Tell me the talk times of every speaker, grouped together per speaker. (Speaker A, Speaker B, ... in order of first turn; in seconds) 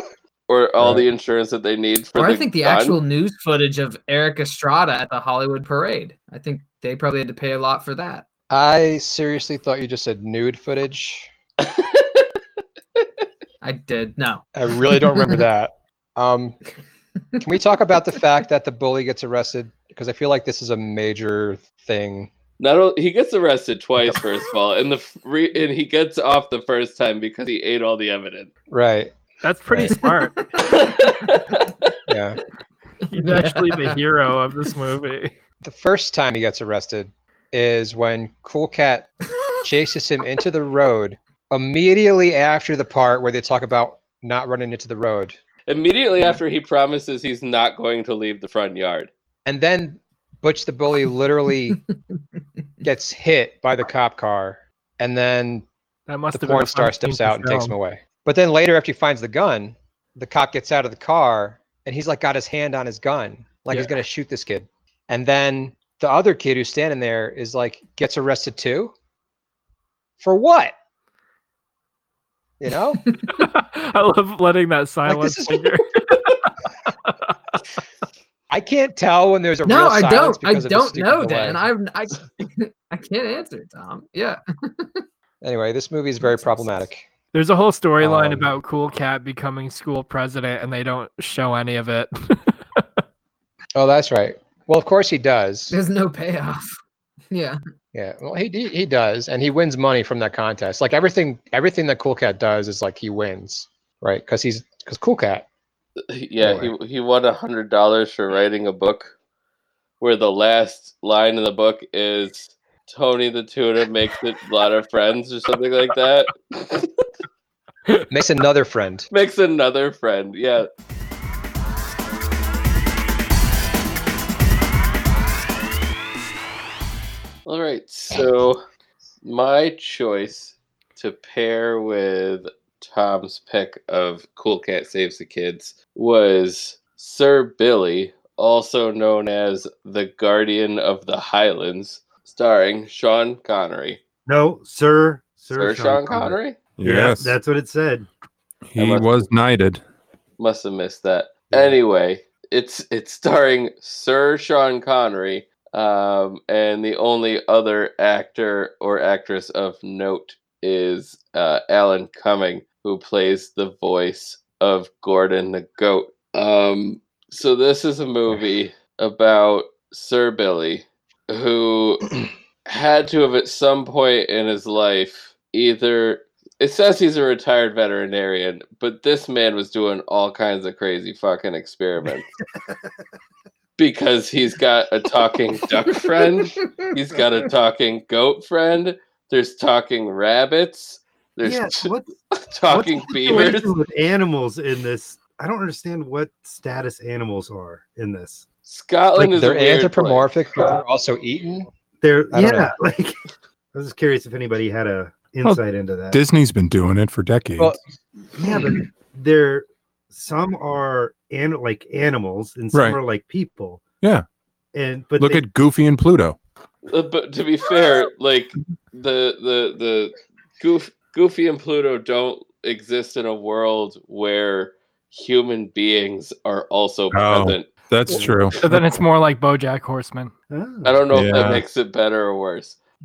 Speaker A: 0.5-3.0, 11.6-12.2, 22.6-28.5, 30.8-31.3, 45.7-49.1, 106.1-109.1, 110.0-116.9, 119.1-120.7, 127.5-128.6, 129.2-144.0, 145.5-146.6, 148.8-149.3, 150.4-182.3, 183.8-193.7, 198.7-200.3, 216.8-227.7, 230.8-232.8
Speaker B: 0.8-1.1, 8.5-11.3, 14.5-16.6, 17.4-22.3, 28.7-29.1, 29.7-29.9, 32.1-32.4, 35.6-39.1, 39.6-45.4, 49.5-51.8, 52.8-55.6, 56.3-68.9, 70.2-70.7, 72.6-73.0, 75.0-75.8, 78.5-81.7, 85.4-87.0, 88.0-88.5, 93.7-95.8, 97.9-105.5, 106.4-106.7, 118.1-119.1, 199.2-201.7, 202.3-202.7
Speaker C: 2.1-8.2, 13.6-15.4, 30.0-31.7, 33.1-34.0, 73.1-73.3, 79.7-85.0, 86.2-86.7, 95.7-96.8, 97.3-97.6, 186.2-186.9
Speaker D: 29.4-30.3, 33.1-35.3, 56.1-57.7, 73.3-76.5, 77.0-77.3, 87.3-92.8, 228.6-230.3
Speaker E: 144.3-148.1, 191.4-192.1, 192.7-198.5, 202.0-203.2, 203.7-206.2, 208.3-213.8, 214.7-215.4, 230.5-231.1
Speaker F: 146.8-147.4, 148.7-149.8, 206.1-207.7, 212.7-213.0, 215.2-216.4, 227.1-228.8, 231.1-231.6